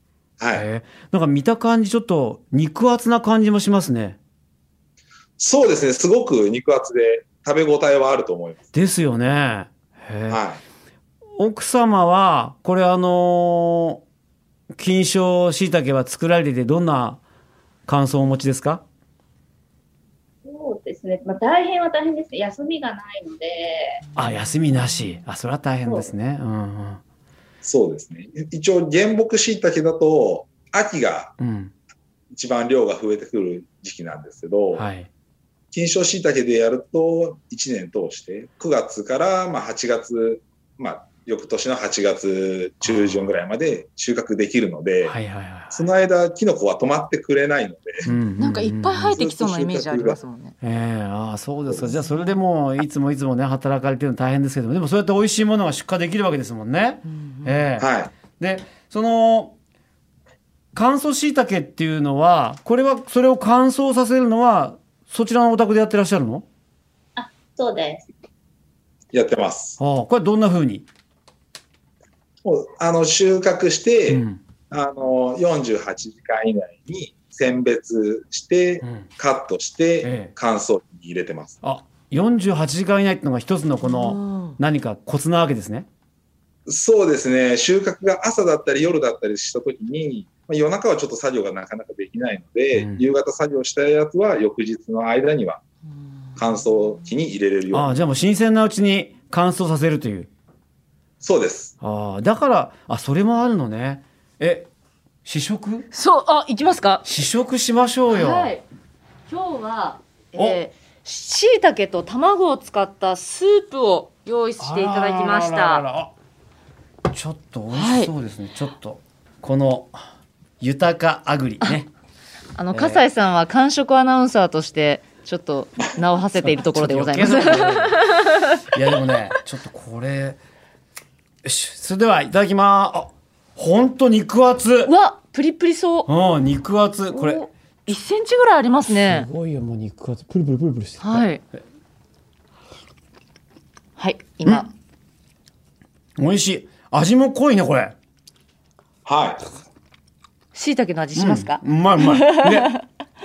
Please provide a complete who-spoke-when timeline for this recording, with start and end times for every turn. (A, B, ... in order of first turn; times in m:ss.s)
0:00.4-0:00.7 A
0:00.5-0:04.2 B
0:05.4-0:08.6 A
0:08.7-0:10.4 B
0:10.3-0:10.6 A
0:11.4-0:14.0 B
0:14.7-0:17.2 B
0:17.9-0:18.8 B
0:20.4-0:24.0 C
0:24.2-0:27.0 B
0:25.8-0:26.1 C
0:27.6-0:31.3 A
0:31.4-0:31.7 B
0:32.3-0:34.8 A
0:34.7-0:35.1 B
0:35.7-0:45.2 A
0:42.8-0:43.3 B
0:45.0-0:45.9 B
0:45.7-0:48.1 A
0:48.0-0:49.2 B
0:48.4-0:50.5 D
0:49.1-0:50.2 A
0:50.6-0:59.5 B
0:57.0-0:57.7 D
0:57.8-0:58.1 A
1:00.7-1:06.4 B
1:07.2-1:08.0 C
1:09.1-1:09.8 A
1:09.8-1:10.9 B
1:12.4-1:21.6 A
1:14.1-1:14.4 B
1:18.8-1:19.1 B
1:20.0-1:20.3 B
1:21.6-1:25.9 B
1:23.8-1:24.6 D
1:26.6-1:35.6 A
1:32.7-1:33.0 B
1:36.4-1:37.9 A
1:37.7-1:40.3 B
1:41.2-1:41.7 A
1:41.8-1:44.7 B
1:45.2-1:45.8 B
1:45.9-1:47.0 D
1:47.0-1:48.5 B
1:48.1-1:48.6 D
1:49.3-1:55.8 D
1:54.6-1:56.1 B
1:57.1-2:00.0 B
1:57.7-1:58.1 D
2:00.6-2:01.9 B
2:02.6-2:08.6 D
2:02.7-2:03.0 B
2:06.4-2:08.1 B
2:08.7-2:10.4 B
2:11.4-2:14.9 B
2:14.8-2:16.1 D
2:16.1-2:17.4 B
2:17.1-2:19.3 D
2:18.9-2:21.3 B
2:21.0-2:21.4 D
2:24.0-2:24.7 D
2:26.2-2:27.9 B
2:29.0-2:29.5 A
2:30.5-2:32.8 D
2:31.2-2:32.7 B